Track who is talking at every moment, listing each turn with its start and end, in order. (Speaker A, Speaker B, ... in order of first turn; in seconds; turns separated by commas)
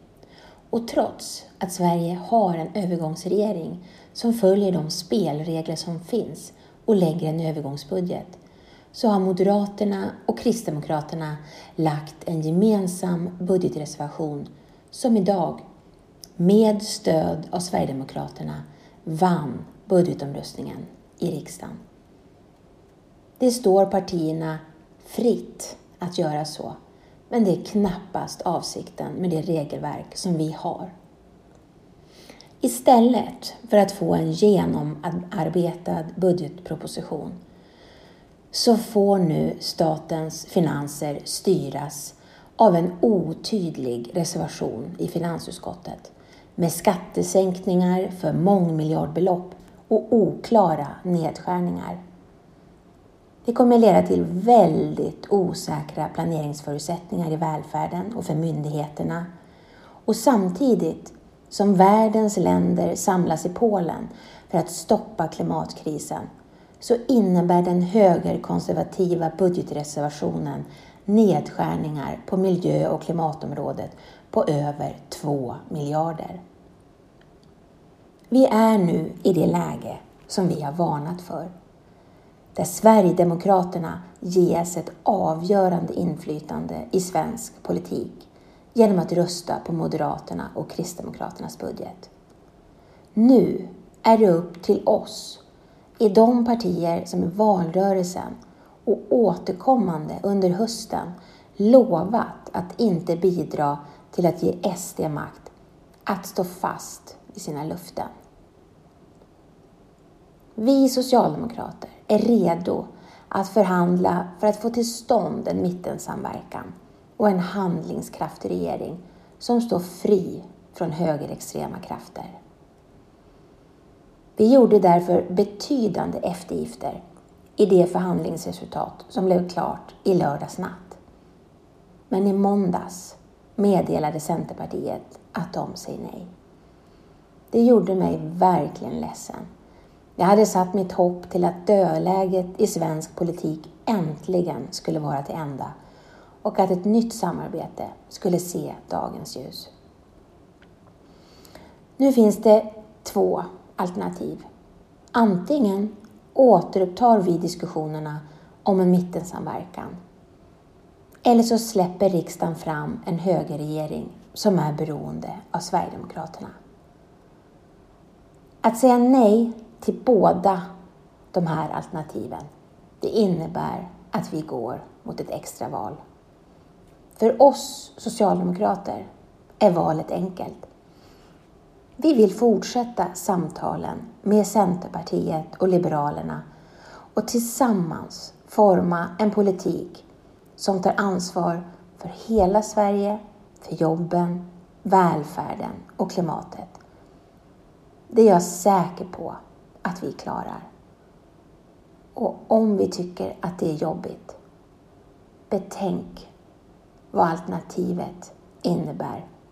Speaker A: 0.7-8.4, Speaker A: 8.9-15.6, Speaker A: 16.4-21.8, Speaker A: 23.4-26.8, Speaker A: 27.3-30.9, Speaker A: 32.6-37.4, Speaker A: 38.5-52.0, Speaker A: 53.5-59.3, Speaker A: 60.1-66.3, Speaker A: 66.8-76.4, Speaker A: 78.3-81.5, Speaker A: 82.5-92.1, Speaker A: 93.2-95.4, Speaker A: 96.0-105.5, Speaker A: 106.1-108.1, Speaker A: 110.6-122.3, Speaker A: 124.4-127.0, Speaker A: 127.6-131.0, Speaker A: 132.1-136.3, Speaker A: 137.5-139.5, Speaker A: 140.2-145.7, Speaker A: 146.4-149.7, Speaker A: 152.0-154.5, Speaker A: 155.1-160.0, Speaker A: 161.2-166.6, Speaker A: 168.6-170.7, Speaker A: 171.3-172.5, Speaker A: 173.0-176.0, Speaker A: 177.2-179.1, Speaker A: 179.6-180.7, Speaker A: 182.0-186.4, Speaker A: 187.2-190.1, Speaker A: 190.6-196.8, Speaker A: 198.1-200.7, Speaker A: 202.2-204.4, Speaker A: 205.5-206.3, Speaker A: 207.1-209.3